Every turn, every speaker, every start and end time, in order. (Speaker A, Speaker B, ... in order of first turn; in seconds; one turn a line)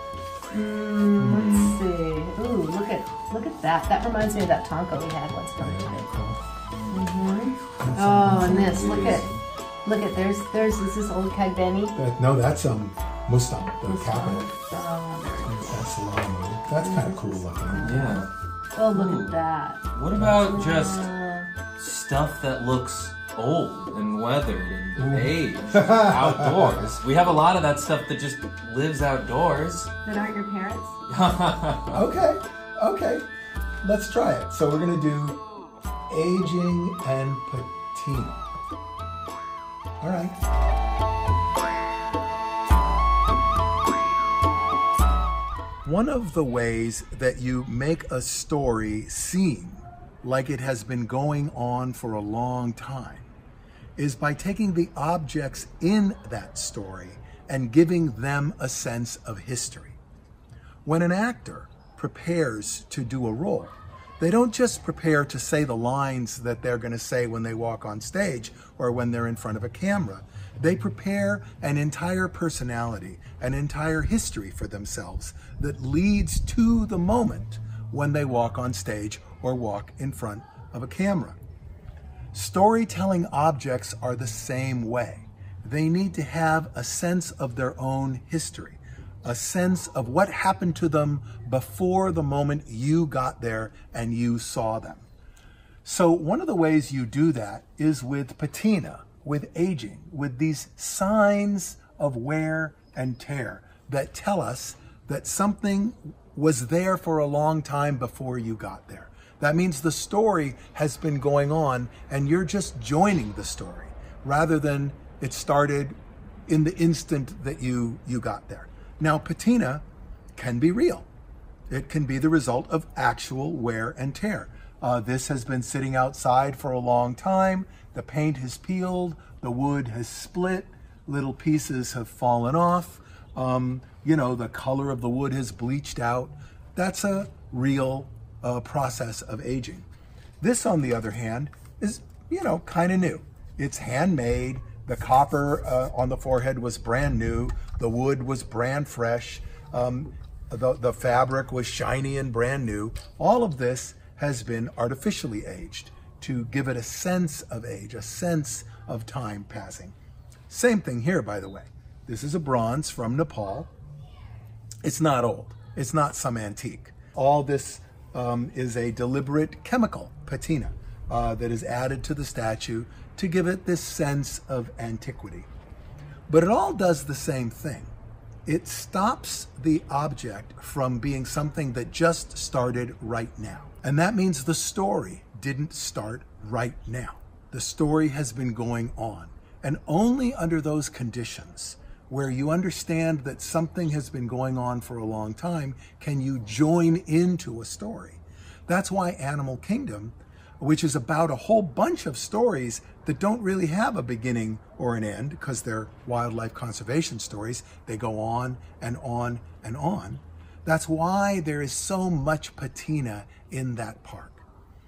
Speaker A: 0.5-6.1
Speaker B: 1.1-1.8
Speaker B: 5.6-6.5
Speaker C: 6.7-7.1
Speaker A: 6.9-9.3
Speaker B: 7.8-8.9
Speaker C: 8.4-9.4
Speaker A: 9.8-11.9
Speaker B: 11.9-14.5
Speaker A: 13.8-15.7
Speaker B: 15.4-18.1
Speaker A: 16.8-18.2
Speaker C: 17.8-18.3
Speaker A: 18.8-19.9
Speaker C: 18.9-19.4
Speaker C: 19.9-21.1
Speaker B: 20.1-20.5
Speaker A: 20.4-21.5
Speaker C: 21.7-29.9
Speaker B: 24.9-26.9
Speaker A: 30.0-31.0
Speaker C: 31.1-32.1
Speaker B: 31.9-33.3
Speaker B: 33.8-35.4
Speaker B: 36.1-38.4
Speaker B: 40.0-40.4
Speaker B: 45.8-53.3
Speaker B: 54.0-60.0
Speaker B: 60.8-81.4
Speaker B: 82.3-95.1
Speaker B: 95.8-121.1
Speaker B: 121.7-139.9
Speaker B: 140.4-159.9
Speaker B: 160.5-163.7
Speaker B: 164.8-175.5
Speaker B: 176.3-177.9
Speaker B: 178.4-214.4